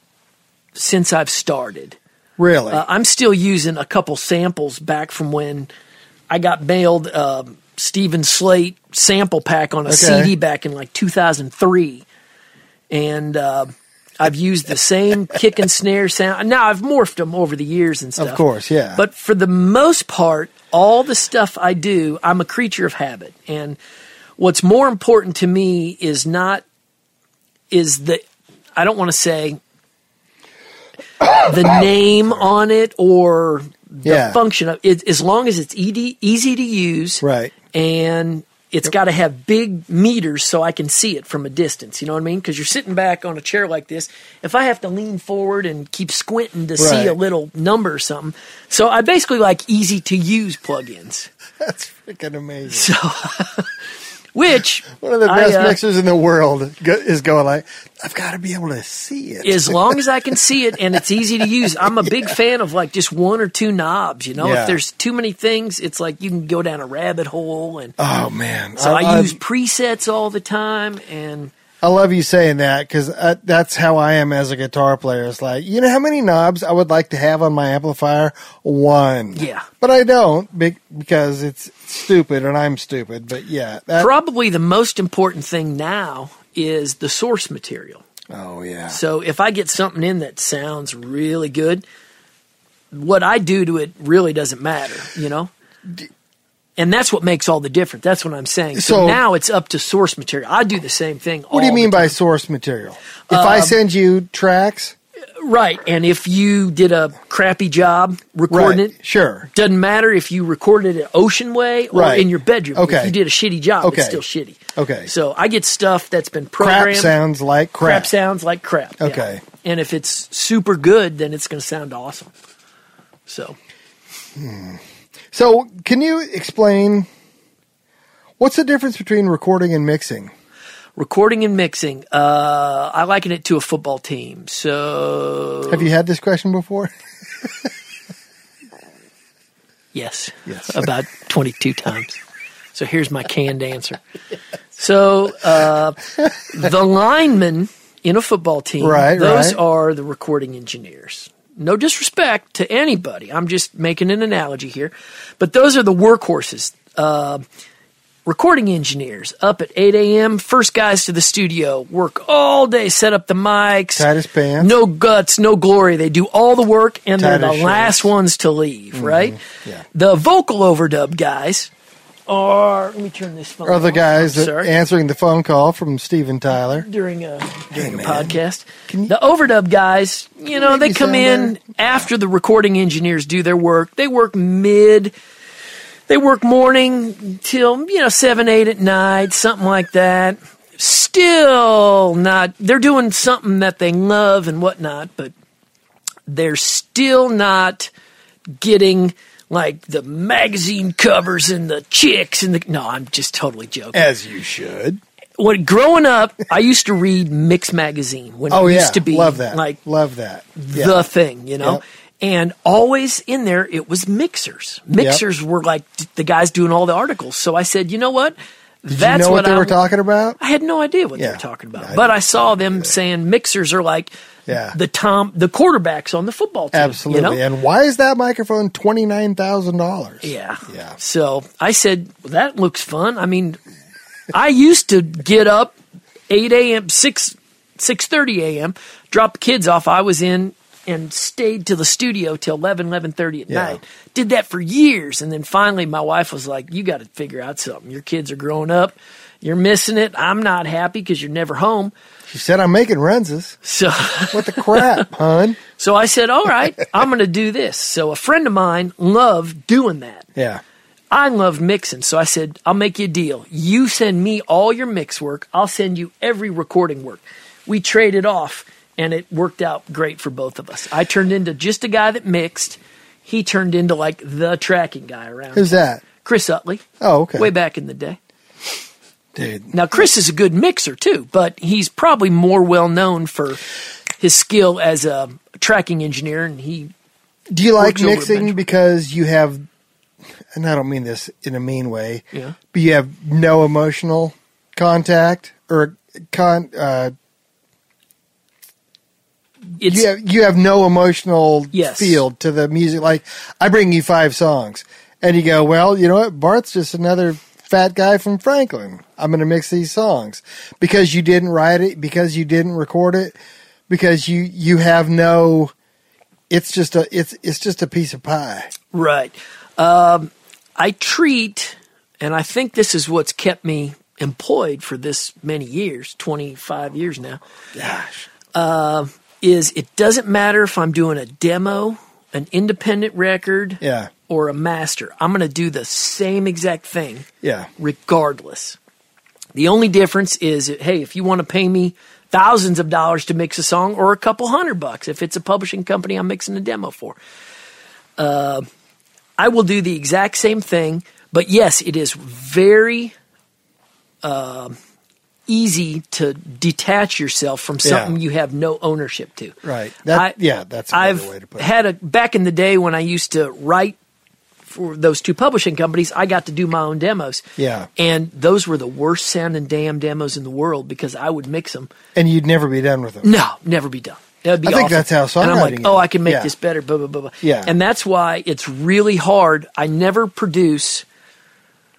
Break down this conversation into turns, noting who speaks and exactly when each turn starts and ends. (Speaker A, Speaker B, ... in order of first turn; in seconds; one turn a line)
Speaker A: 0.8-2.0
Speaker B: 2.4-2.8
Speaker A: 2.7-5.7
Speaker A: 6.3-12.1
Speaker B: 9.9-10.3
Speaker A: 12.9-18.4
Speaker B: 18.2-19.0
Speaker A: 19.0-23.8
Speaker A: 24.4-26.6
Speaker A: 27.7-28.2
Speaker A: 28.8-29.6
Speaker B: 31.2-31.9
Speaker A: 31.4-51.3
Speaker B: 34.0-34.4
Speaker B: 37.2-37.5
Speaker B: 46.8-47.2
Speaker B: 51.6-53.0
Speaker A: 52.7-53.7
Speaker A: 54.4-55.8
Speaker B: 54.9-60.0
Speaker A: 59.4-67.9
Speaker B: 61.8-62.3
Speaker B: 64.4-64.8
Speaker B: 68.0-69.4
Speaker A: 68.8-71.5
Speaker B: 71.8-84.1
Speaker A: 79.3-79.7
Speaker A: 84.0-88.0
Speaker B: 88.3-89.0
Speaker A: 88.9-91.8
Speaker A: 92.9-95.5
Speaker A: 96.8-102.2
Speaker B: 98.8-99.2
Speaker B: 101.5-105.0
Speaker A: 103.3-103.8
Speaker A: 105.4-108.9
Speaker B: 108.5-109.5
Speaker A: 109.5-117.2
Speaker B: 111.9-113.1
Speaker B: 113.8-114.2
Speaker B: 114.8-115.1
Speaker B: 116.6-118.1
Speaker A: 117.8-122.3
Speaker B: 119.0-119.4
Speaker A: 123.3-123.6
Speaker B: 124.4-124.8
Speaker B: 125.3-127.1
Speaker B: 128.4-130.3
Speaker A: 131.0-135.9
Speaker B: 135.7-136.9
Speaker A: 139.9-142.2
Speaker B: 140.5-140.8
Speaker A: 142.7-144.0
Speaker A: 144.8-157.4
Speaker B: 148.8-149.6
Speaker A: 158.2-164.1
Speaker B: 164.0-164.7
Speaker A: 164.6-169.4
Speaker B: 167.2-168.1
Speaker B: 168.9-169.8
Speaker A: 169.9-171.7
Speaker A: 172.3-174.7
Speaker B: 173.7-176.9
Speaker A: 176.7-185.1
Speaker B: 177.7-179.1
Speaker B: 180.5-182.1
Speaker A: 186.1-195.3
Speaker A: 196.3-197.9
Speaker A: 198.6-204.0
Speaker B: 203.9-205.0
Speaker A: 205.4-209.8
Speaker B: 208.5-211.1
Speaker A: 210.6-219.8
Speaker B: 215.0-215.2
Speaker B: 218.9-220.4
Speaker A: 220.4-224.1
Speaker B: 221.2-222.9
Speaker B: 224.5-224.8
Speaker A: 224.7-227.4
Speaker B: 226.7-231.0
Speaker A: 230.2-233.6
Speaker A: 234.3-235.8
Speaker A: 236.3-251.9
Speaker B: 243.5-243.8
Speaker B: 252.3-253.6
Speaker A: 253.6-255.1
Speaker B: 254.3-255.6
Speaker A: 255.8-260.3
Speaker B: 260.4-260.6
Speaker A: 261.1-276.8
Speaker B: 275.5-276.0
Speaker B: 277.0-277.5
Speaker A: 277.4-278.2
Speaker B: 279.4-279.7
Speaker A: 279.7-283.6
Speaker A: 284.2-286.9
Speaker B: 287.5-289.6
Speaker A: 287.8-288.6
Speaker B: 290.5-297.1
Speaker A: 299.8-300.1
Speaker B: 299.9-313.4
Speaker A: 301.7-302.2
Speaker B: 313.9-315.7
Speaker B: 316.5-318.7
Speaker A: 318.9-327.4
Speaker B: 327.8-328.3
Speaker A: 328.5-337.2
Speaker B: 333.8-334.1
Speaker B: 337.4-337.7
Speaker A: 337.8-338.8
Speaker A: 339.5-347.2
Speaker A: 348.2-348.7
Speaker A: 349.4-353.1
Speaker A: 354.2-354.8
Speaker A: 355.5-359.6
Speaker B: 357.8-358.1
Speaker B: 359.6-361.7
Speaker A: 360.9-364.0
Speaker A: 364.7-367.4
Speaker B: 367.6-367.9
Speaker A: 368.0-371.9
Speaker B: 372.1-373.3
Speaker A: 373.2-381.1
Speaker B: 374.6-376.5
Speaker B: 377.4-377.7